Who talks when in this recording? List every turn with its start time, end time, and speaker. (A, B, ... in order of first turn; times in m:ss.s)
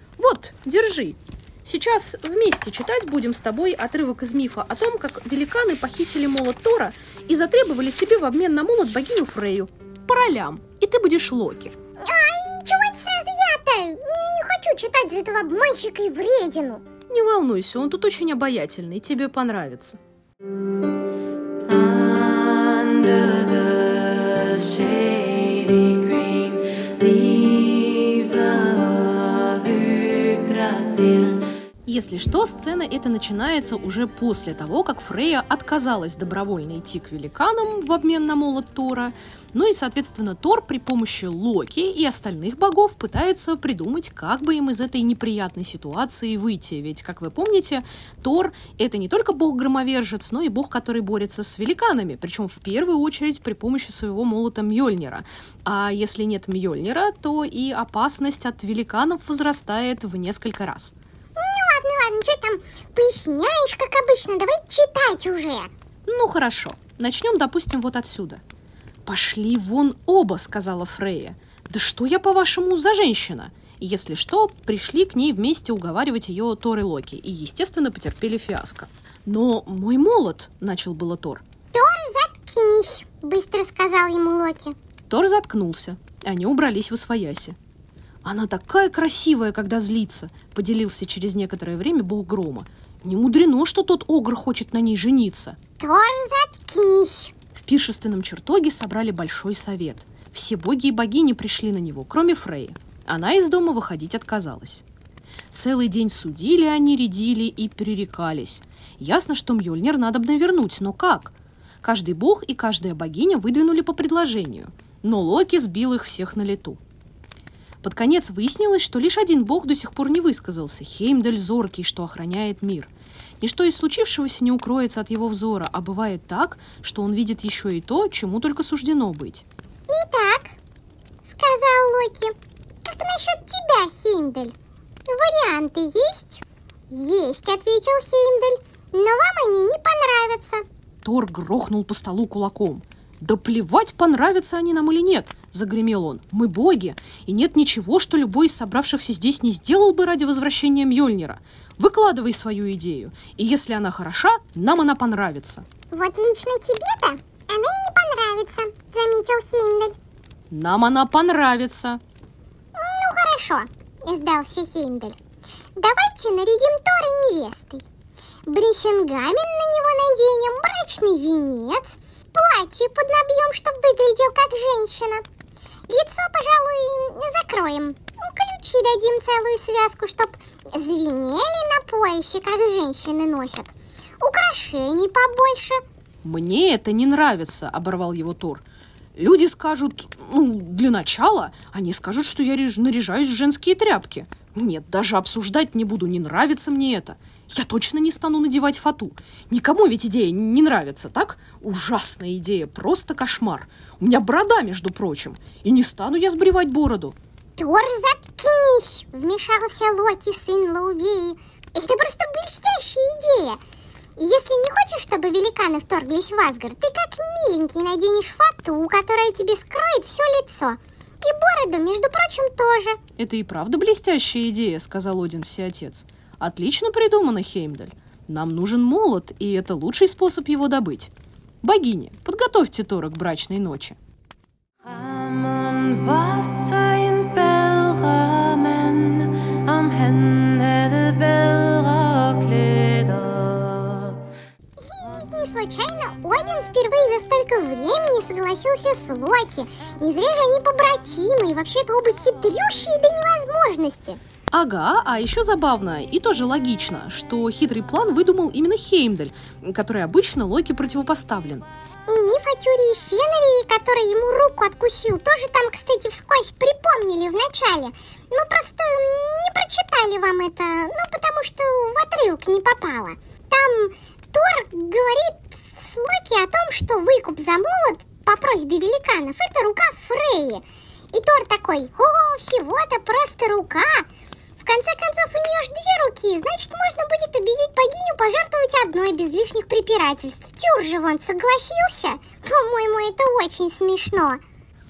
0:00.2-0:11.7 A
0:12.0-0:16.8 B
0:17.1-0:20.0 A
0:21.7-0:31.5 C
0:31.9-1:00.9 A
1:01.4-1:05.7 B
1:06.1-1:08.4 A
1:09.1-1:21.4 A
1:21.7-1:24.8 B
1:25.1-1:27.6 A
1:28.2-1:35.6 A
1:35.8-1:37.3 B
1:37.6-1:44.8 A
1:45.5-1:56.8 A
1:57.8-2:09.4 A
2:09.9-2:10.6 B
2:11.2-2:12.3 B
2:12.8-2:14.5 B
2:15.1-2:20.6 B
2:21.0-2:35.6 A
2:35.9-2:40.0 B
2:40.5-2:42.0 A
2:42.8-2:45.2 B
2:45.8-2:47.8 B
2:48.5-2:55.2 B
2:55.9-3:05.8 B
3:06.2-3:08.6 A
3:09.2-3:27.2 A
3:27.6-3:33.6 B
3:34.2-3:43.0 B
3:43.2-3:51.1 A
3:51.6-3:54.0 A
3:54.8-4:04.2 C
4:04.8-4:14.2 B
4:14.5-4:21.7 A
4:22.1-4:44.1 B
4:44.6-4:54.4 B